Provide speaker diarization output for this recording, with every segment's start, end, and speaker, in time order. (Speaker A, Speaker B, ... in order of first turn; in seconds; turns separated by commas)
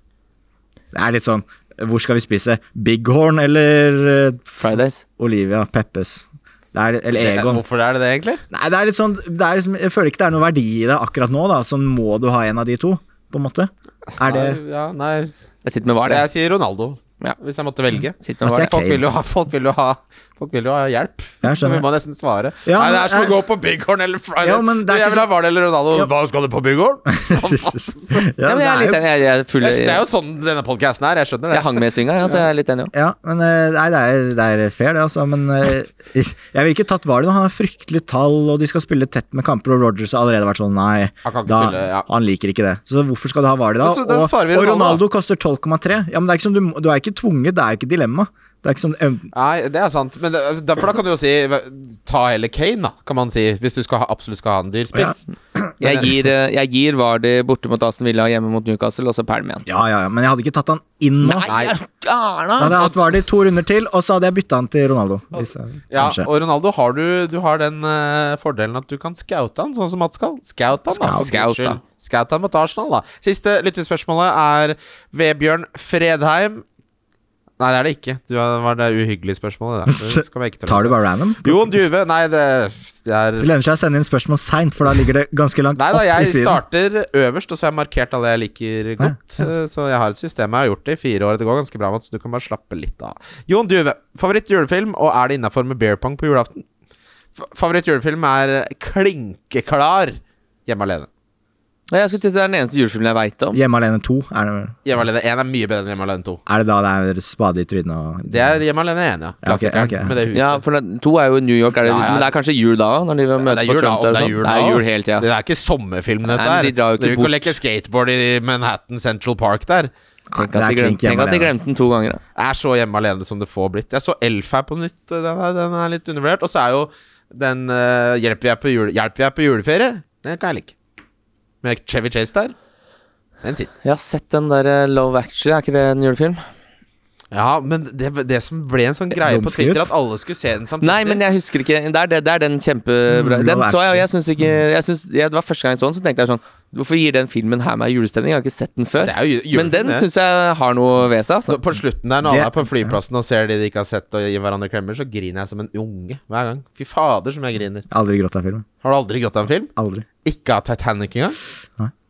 Speaker A: 0.9-4.6, Speaker B: 4.6-5.0, Speaker A: 5.2-7.6, Speaker C: 7.2-8.4, Speaker A: 8.5-14.6, Speaker C: 14.2-15.4, Speaker B: 15.7-16.3, Speaker C: 16.1-28.3, Speaker B: 18.2-18.7, Speaker A: 18.4-19.1, Speaker A: 21.4-21.9, Speaker A: 22.7-23.4, Speaker A: 24.4-25.3, Speaker A: 27.2-29.0, Speaker B: 28.4-30.0, Speaker C: 29.6-32.4, Speaker B: 31.5-32.9, Speaker A: 32.9-49.3, Speaker C: 41.2-42.1, Speaker C: 43.8-45.0, Speaker C: 49.3-55.2, Speaker A: 54.9-56.1, Speaker B: 55.8-59.6, Speaker A: 59.7-61.5, Speaker B: 61.2-62.9, Speaker C: 61.5-61.8, Speaker A: 62.6-66.3, Speaker C: 65.3-76.6, Speaker A: 70.9-71.2, Speaker B: 71.1-71.8, Speaker C: 77.6-83.5, Speaker A: 79.9-81.8, Speaker A: 83.4-86.6, Speaker C: 85.8-96.7, Speaker A: 89.0-89.5, Speaker C: 97.4-101.1, Speaker B: 101.9-103.6, Speaker A: 103.5-104.8, Speaker C: 104.9-106.4, Speaker A: 106.5-108.6, Speaker C: 108.3-110.6, Speaker A: 109.4-110.2, Speaker B: 110.3-115.3, Speaker C: 111.8-112.3, Speaker C: 113.4-119.9, Speaker B: 116.3-117.6, Speaker A: 120.3-121.5, Speaker B: 120.3-122.2, Speaker C: 122.4-130.7, Speaker C: 131.6-132.5, Speaker C: 133.4-133.7, Speaker B: 133.8-136.4, Speaker C: 137.3-141.2, Speaker A: 139.2-139.9, Speaker B: 140.8-151.6, Speaker A: 143.1-144.1, Speaker C: 149.0-150.1, Speaker C: 151.5-157.9, Speaker A: 152.2-153.0, Speaker A: 157.9-158.7, Speaker C: 158.8-159.7, Speaker A: 159.8-160.1, Speaker C: 160.2-161.4